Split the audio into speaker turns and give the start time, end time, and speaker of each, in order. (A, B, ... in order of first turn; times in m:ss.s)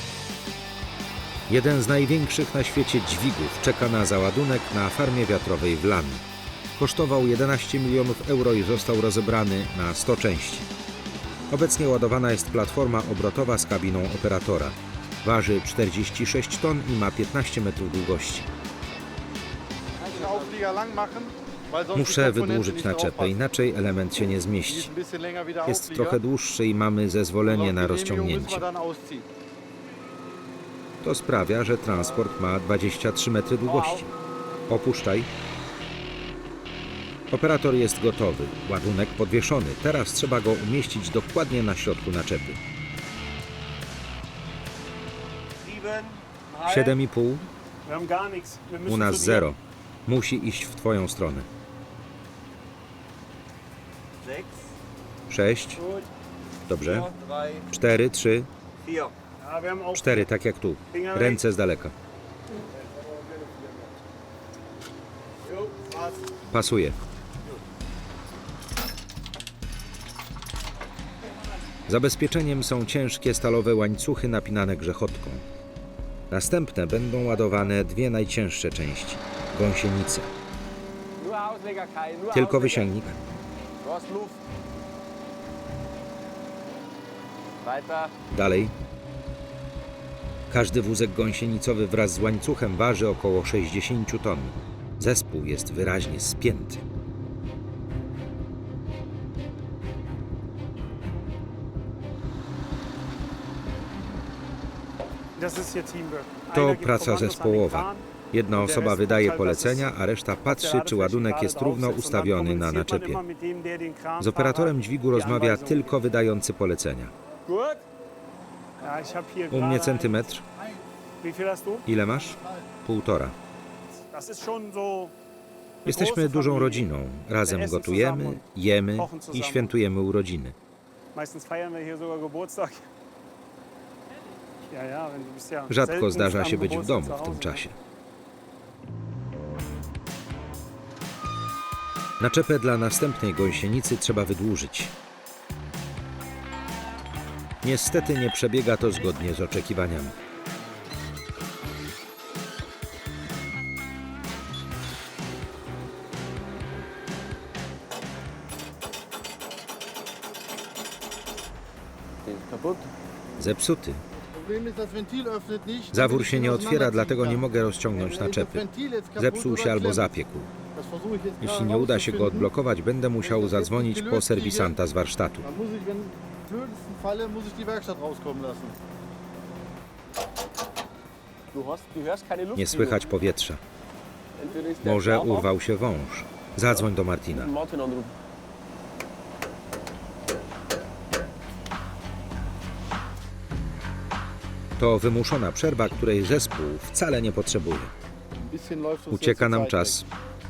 0:01.5-0:06.2 A
0:06.8-0:10.7 A
0:11.5-0:18.5 A
0:20.0-0:23.4 B
0:21.9-0:24.9 A
0:24.6-0:26.2 B
0:25.6-0:28.6 A
0:27.4-0:29.3 B
0:31.0-0:34.1 A
0:33.6-0:34.0 C
0:34.7-0:35.3 A
0:37.3-0:42.6 A
0:45.6-0:46.9 C
0:46.6-0:47.5 A
0:47.8-0:49.5 D
0:48.9-0:51.5 A
0:54.2-0:54.5 C
0:55.3-0:55.8 A
0:55.8-0:56.1 D
0:56.7-0:57.1 A
0:56.8-0:57.6 C
0:57.7-0:58.5 A
0:58.8-0:59.1 C
0:59.4-1:00.3 D
0:59.9-1:01.9 A
1:00.9-1:01.4 D
1:05.7-1:06.0 C
1:06.5-1:07.0 A
1:11.8-1:15.4 A
1:16.3-1:20.3 A
1:21.2-1:22.9 C
1:22.3-1:23.2 A
1:23.8-1:24.4 C
1:27.6-1:28.1 C
1:28.3-1:28.7 A
1:30.5-1:36.8 A
1:45.4-1:56.0 D
1:46.5-1:53.2 A
1:54.2-1:57.1 A
1:57.4-1:57.8 D
1:58.8-2:00.3 D
1:59.5-2:00.4 A
2:01.2-2:01.9 D
2:01.9-2:03.4 A
2:02.1-2:02.7 B
2:04.1-2:05.1 D
2:05.8-2:06.9 D
2:05.8-2:10.5 A
2:07.4-2:09.7 D
2:11.1-2:12.9 D
2:14.7-2:17.6 D
2:15.7-2:17.8 A
2:22.2-2:24.9 A
2:27.6-2:30.1 A
2:42.2-2:42.9 C
2:43.4-2:44.0 A
2:44.3-2:50.2 B
2:45.9-2:50.5 A
2:50.7-2:52.5 B
2:51.4-2:55.4 A
2:53.2-2:54.8 B
2:55.4-2:58.8 B
3:01.5-3:03.2 C
3:02.5-3:03.6 A
3:04.4-3:05.5 C
3:04.8-3:07.5 A
3:06.7-3:08.1 C
3:14.8-3:17.9 A
3:18.4-3:20.0 B
3:19.1-3:20.0 A